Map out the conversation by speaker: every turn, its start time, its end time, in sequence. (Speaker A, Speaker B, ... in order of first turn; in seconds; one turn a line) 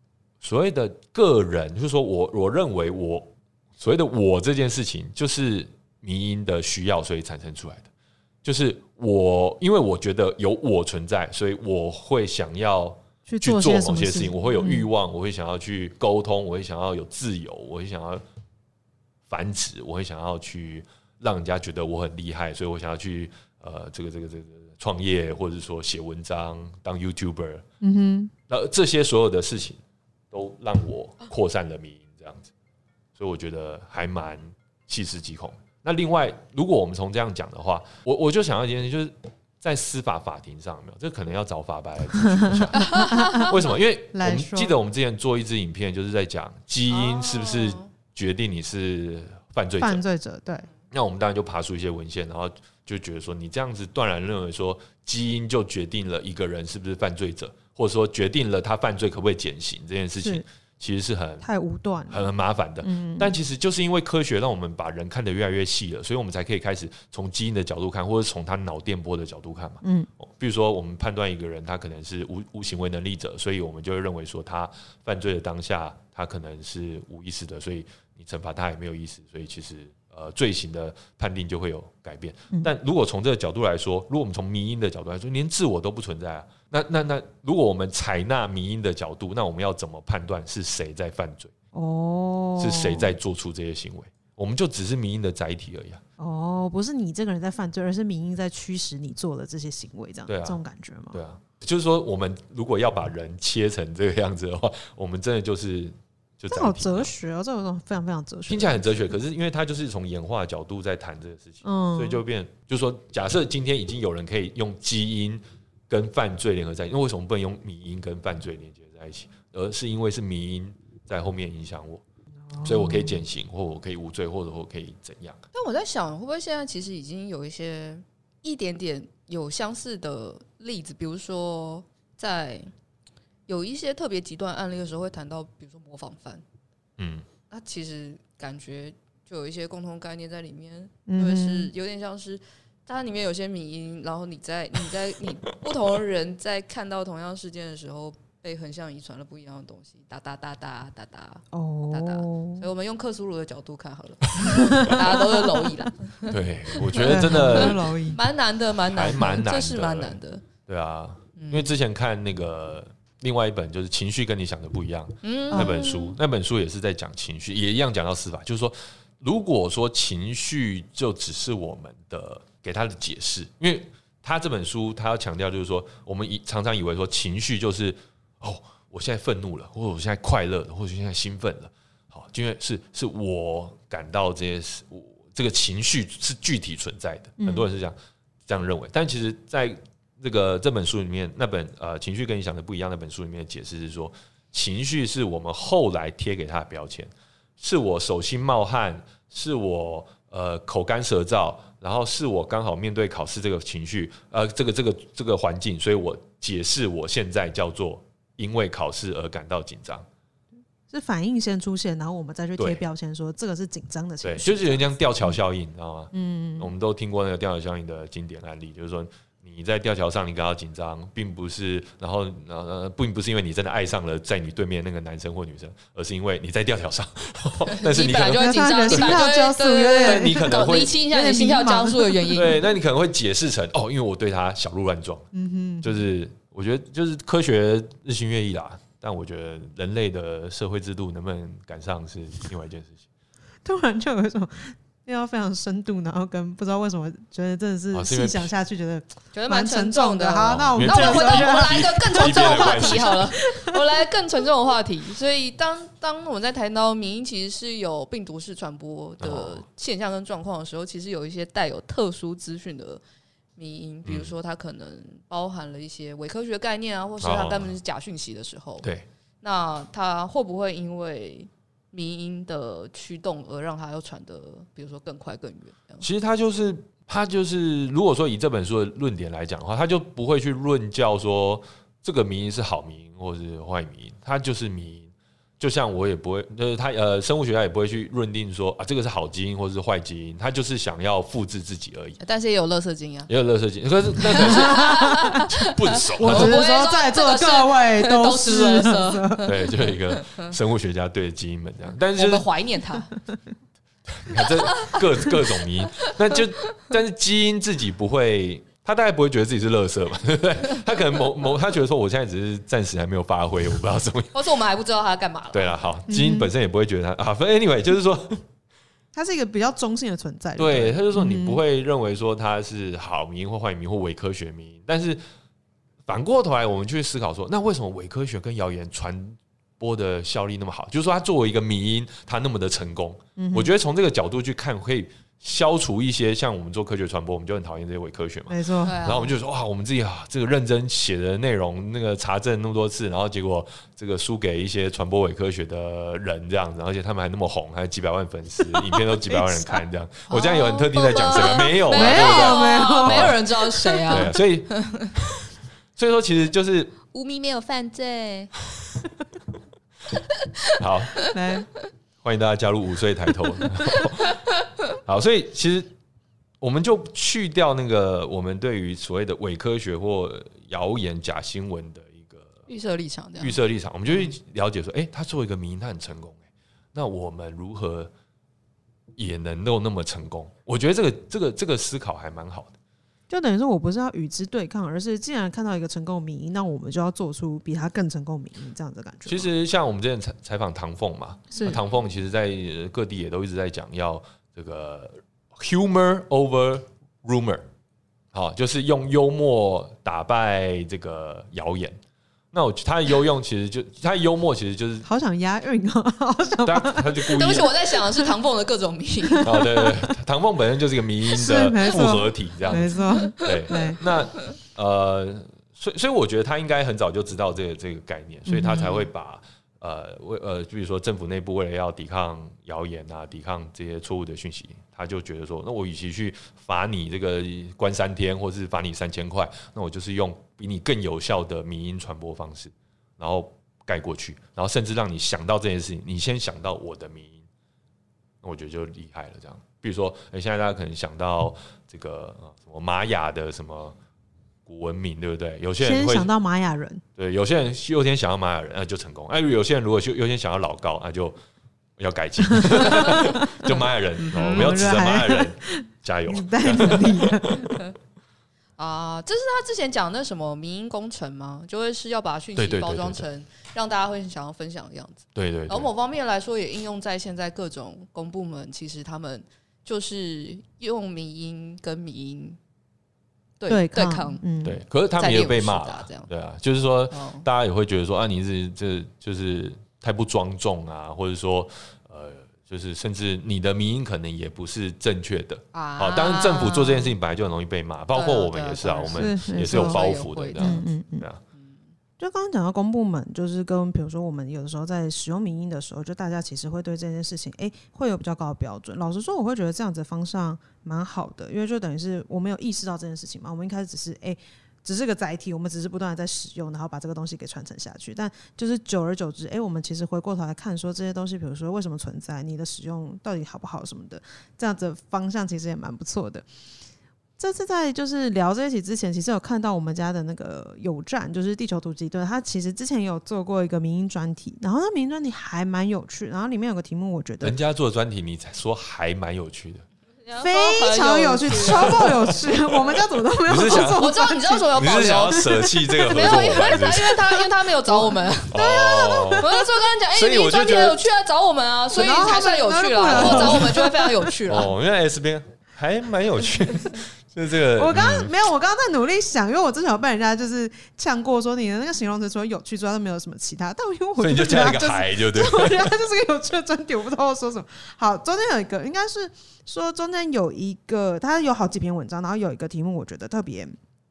Speaker A: 0.4-7.9
Speaker A: 8.4-18.2
Speaker B: 13.3-14.9
Speaker A: 19.3-27.6
Speaker B: 27.8-28.3
Speaker A: 28.5-29.8
Speaker A: 30.3-32.5
Speaker A: 33.1-50.0
Speaker B: 42.3-43.6
Speaker C: 42.8-43.5
Speaker B: 44.1-44.8
Speaker C: 46.9-47.9
Speaker B: 49.8-50.7
Speaker A: 50.9-61.5
Speaker B: 60.2-60.4
Speaker B: 61.4-62.3
Speaker A: 62.1-91.5
Speaker B: 62.8-63.4
Speaker B: 69.8-70.1
Speaker B: 91.7-93.2
Speaker A: 92.6-96.0
Speaker B: 96.2-101.2
Speaker A: 100.3-100.6
Speaker A: 101.1-107.1
Speaker B: 106.5-109.1
Speaker A: 108.5-122.0
Speaker B: 111.6-112.2
Speaker B: 122.5-123.2
Speaker A: 122.6-125.4
Speaker C: 125.5-132.7
Speaker C: 133.5-136.4
Speaker A: 137.0-137.3
Speaker C: 137.5-160.4
Speaker B: 141.1-141.7
Speaker B: 151.5-152.7
Speaker B: 154.4-155.7
Speaker A: 156.3-157.9
Speaker B: 157.0-158.2
Speaker A: 158.9-187.9
Speaker C: 161.4-161.7
Speaker C: 165.2-166.2
Speaker B: 165.5-165.9
Speaker B: 187.4-187.7
Speaker A: 188.4-210.1
Speaker B: 210.9-215.4
Speaker A: 212.6-212.8
Speaker A: 214.2-229.3
Speaker B: 216.1-216.7
Speaker C: 227.7-232.6
Speaker B: 228.3-232.6
Speaker A: 230.0-231.0
Speaker A: 232.3-235.3
Speaker B: 235.3-236.0
Speaker A: 235.8-243.1
Speaker B: 243.6-253.8
Speaker A: 247.9-248.5
Speaker C: 249.3-263.0
Speaker A: 250.5-253.3
Speaker A: 259.2-259.6
Speaker C: 263.6-268.9
Speaker A: 264.1-264.3
Speaker A: 267.2-267.7
Speaker C: 269.4-276.1
Speaker A: 276.0-292.2
Speaker C: 292.2-293.3
Speaker A: 293.3-296.6
Speaker C: 294.2-300.5
Speaker B: 294.4-295.4
Speaker B: 296.2-299.5
Speaker A: 299.4-302.5
Speaker C: 302.1-303.1
Speaker A: 304.1-314.4
Speaker C: 304.4-305.0
Speaker C: 314.3-315.9
Speaker A: 315.5-318.4
Speaker B: 316.1-316.5
Speaker B: 319.1-321.6
Speaker A: 320.6-325.2
Speaker A: 326.1-353.4
Speaker B: 333.4-333.7
Speaker B: 338.5-339.0
Speaker C: 338.8-339.3
Speaker B: 348.8-349.8
Speaker C: 350.3-355.1
Speaker B: 351.4-354.3
Speaker A: 354.1-356.9
Speaker C: 357.1-358.5
Speaker C: 360.4-361.3
Speaker A: 360.8-361.3
Speaker B: 361.3-361.7
Speaker A: 362.2-364.4
Speaker A: 365.0-365.9
Speaker A: 366.6-372.5
Speaker C: 372.7-373.6
Speaker A: 373.4-376.4
Speaker A: 376.9-378.1
Speaker A: 379.1-382.8
Speaker B: 383.3-389.5
Speaker A: 389.3-397.6
Speaker B: 391.5-391.8
Speaker A: 398.3-402.0
Speaker A: 402.5-405.1
Speaker B: 405.0-407.6
Speaker A: 406.6-407.7
Speaker C: 407.3-409.5
Speaker B: 409.3-410.1
Speaker A: 409.4-437.4
Speaker B: 411.3-414.0
Speaker C: 413.1-413.8
Speaker B: 418.5-419.1
Speaker A: 438.4-444.0
Speaker A: 444.6-446.3
Speaker B: 445.8-447.0
Speaker A: 447.1-451.4
Speaker A: 452.0-457.5
Speaker B: 452.5-453.8
Speaker C: 454.2-454.8
Speaker B: 454.4-457.8
Speaker C: 457.6-457.9
Speaker C: 458.8-472.6
Speaker A: 462.6-463.2
Speaker A: 465.4-465.9
Speaker C: 473.6-474.4
Speaker B: 473.7-474.8
Speaker A: 474.6-491.4
Speaker C: 475.2-476.3
Speaker C: 477.1-477.4
Speaker C: 485.7-487.1
Speaker C: 488.1-490.9
Speaker B: 489.1-490.0
Speaker B: 490.6-491.3
Speaker C: 491.5-491.8
Speaker B: 492.2-516.5
Speaker B: 517.4-527.6
Speaker A: 527.4-529.9
Speaker C: 530.2-532.1
Speaker B: 530.4-534.7
Speaker A: 531.7-532.5
Speaker A: 533.5-534.1
Speaker C: 533.8-544.7
Speaker A: 534.8-537.2
Speaker B: 535.4-539.6
Speaker A: 538.5-539.5
Speaker A: 540.1-541.0
Speaker B: 541.9-544.3
Speaker A: 543.1-543.7
Speaker A: 544.5-548.3
Speaker B: 547.8-563.8
Speaker A: 554.2-555.9